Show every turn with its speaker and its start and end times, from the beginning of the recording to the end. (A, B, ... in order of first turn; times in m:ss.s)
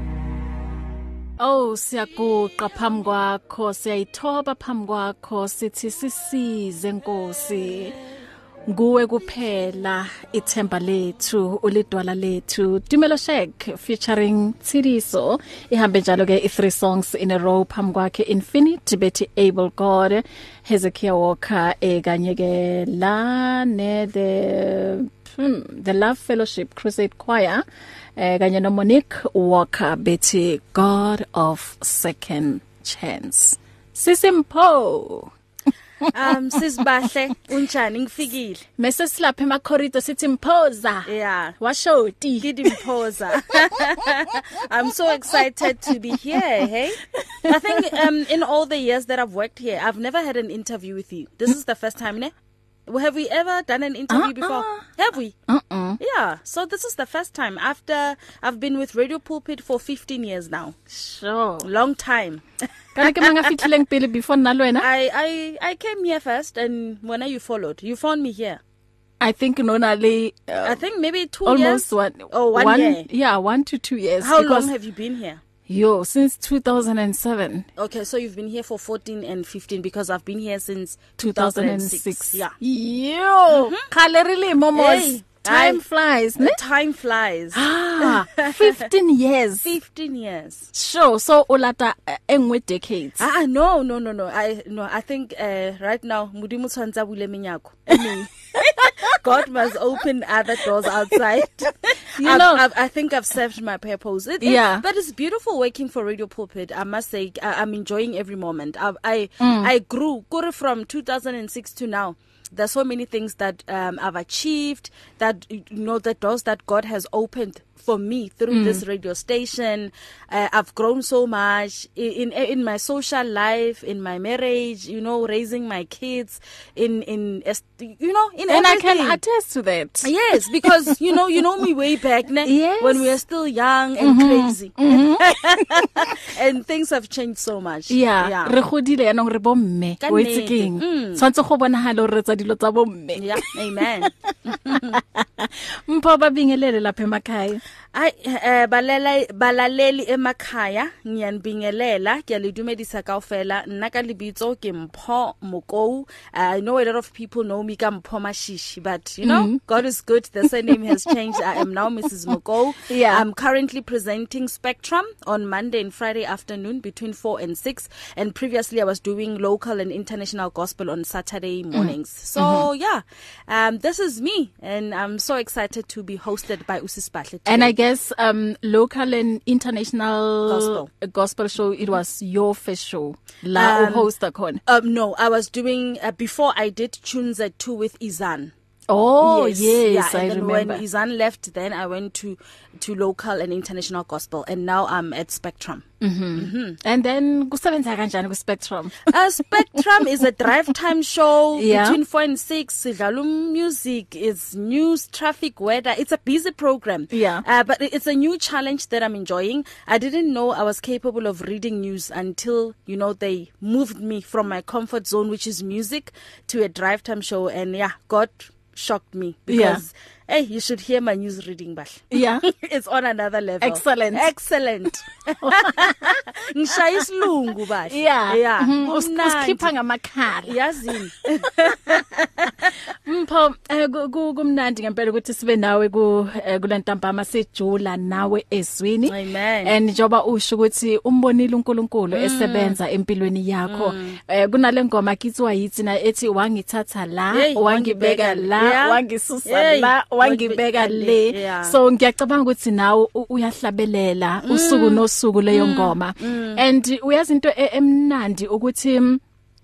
0:01.4-0:08.0 A
0:08.7-0:27.6 A
0:28.2-0:35.3 A
0:36.1-0:38.6 B
0:38.8-0:41.1 A
0:41.1-0:41.6 B
0:41.6-0:42.8 A
0:42.4-0:52.3 B
0:47.2-0:48.0 A
0:52.9-0:55.4 B
0:54.1-0:54.8 A
0:55.5-0:56.0 A
0:56.0-1:00.8 B
1:00.9-1:01.7 A
1:01.6-1:02.4 B
1:03.0-1:04.9 A
1:03.0-1:03.5 B
1:04.8-1:08.6 B
1:09.2-1:10.8 A
1:10.6-1:13.1 B
1:11.5-1:14.7 A
1:14.2-1:15.4 B
1:15.7-1:17.7 A
1:17.8-1:22.5 B
1:21.2-1:26.6 A
1:23.5-1:23.8 B
1:24.8-1:25.8 B
1:26.4-1:28.8 B
1:27.5-1:29.7 A
1:29.6-1:30.7 B
1:30.7-1:33.2 A
1:33.2-2:09.2 B
1:38.6-1:39.2 A
1:40.8-1:42.6 A
1:44.4-1:44.8 A
1:49.4-1:49.7 A
1:58.5-1:58.8 A
2:08.5-2:11.0 A
2:10.0-2:18.6 B
2:12.4-2:13.1 A
2:14.0-2:16.2 A
2:17.9-2:23.5 A
2:20.0-2:21.2 B
2:23.2-2:25.0 B
2:24.1-2:27.6 A
2:27.9-2:57.8 B
2:39.2-2:39.6 A
2:40.5-2:41.1 A
2:42.9-2:43.2 A
2:51.7-2:52.7 A
2:57.5-3:04.6 A
3:00.5-3:00.9 B
3:03.5-3:04.1 B
3:04.7-3:08.5 B
3:08.9-3:10.8 A
3:09.2-3:16.8 B
3:16.0-3:19.1 A
3:19.1-3:49.7 B
3:21.6-3:22.0 A
3:27.1-3:27.4 A
3:39.5-3:39.8 A
3:42.1-3:42.4 A
3:43.6-3:44.2 A
3:45.4-3:46.2 A
3:47.9-3:50.6 A
3:50.5-3:52.7 B
3:51.6-3:52.5 A
3:53.1-3:59.1 A
3:59.1-3:59.7 B
3:59.6-4:19.2 A
4:02.1-4:02.8 B
4:03.7-4:04.2 B
4:07.3-4:11.8 B
4:14.4-4:16.6 B